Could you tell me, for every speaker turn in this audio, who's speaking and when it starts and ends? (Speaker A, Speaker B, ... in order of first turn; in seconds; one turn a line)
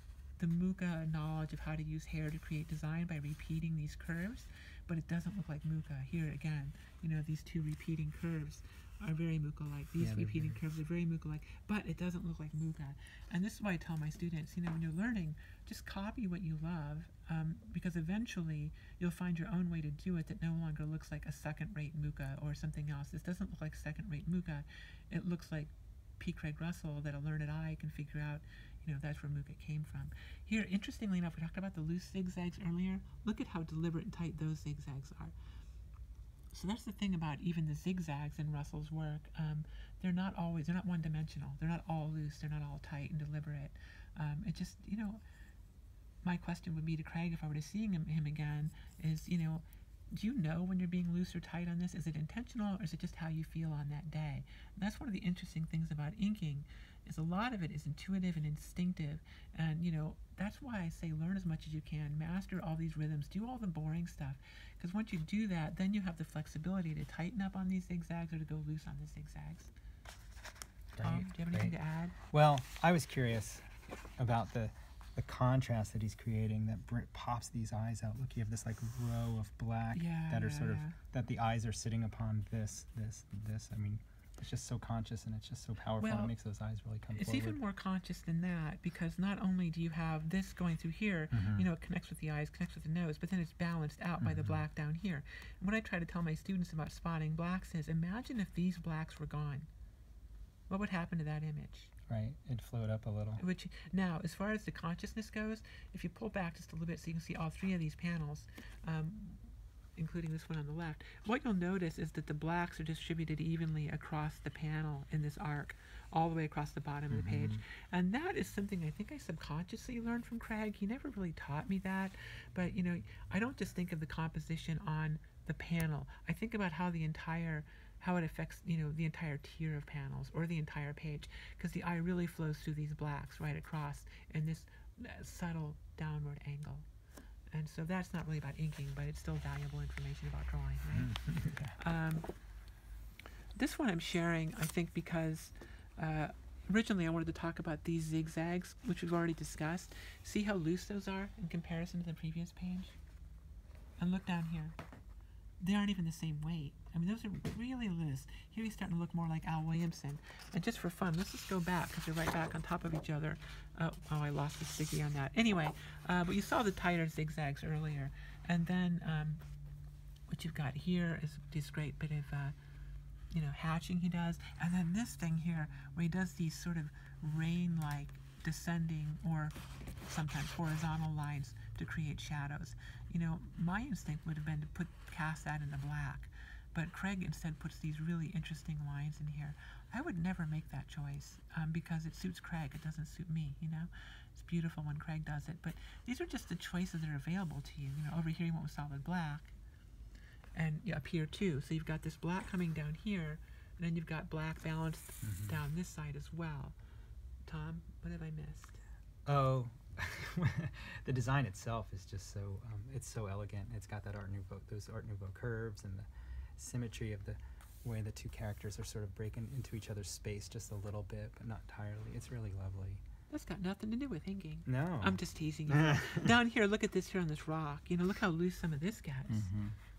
Speaker A: 0.4-35.3
Speaker B: 10.0-10.6
Speaker A: 36.5-45.2
Speaker A: 46.2-69.7
Speaker B: 70.9-71.7
Speaker A: 71.0-72.2
Speaker B: 72.3-73.7
Speaker B: 74.2-87.6
Speaker A: 79.9-81.0
Speaker A: 86.0-86.3
Speaker A: 87.1-99.7
Speaker B: 91.3-91.7
Speaker B: 94.2-94.6
Speaker A: 100.7-101.9
Speaker B: 102.1-103.4
Speaker A: 103.4-136.8
Speaker B: 117.1-117.6
Speaker A: 137.5-141.1
Speaker B: 140.9-141.8
Speaker A: 141.8-142.3
Speaker A: 143.5-153.0
Speaker A: 154.0-154.8
Speaker A: 155.6-169.4
Speaker A: 170.3-172.5
Speaker A: 173.3-199.5
Speaker A: 200.5-206.7
Speaker B: 205.2-205.6
Speaker A: 207.4-208.8
Speaker B: 209.2-223.0
Speaker A: 223.3-229.5
Speaker B: 224.7-226.3
Speaker B: 229.3-229.8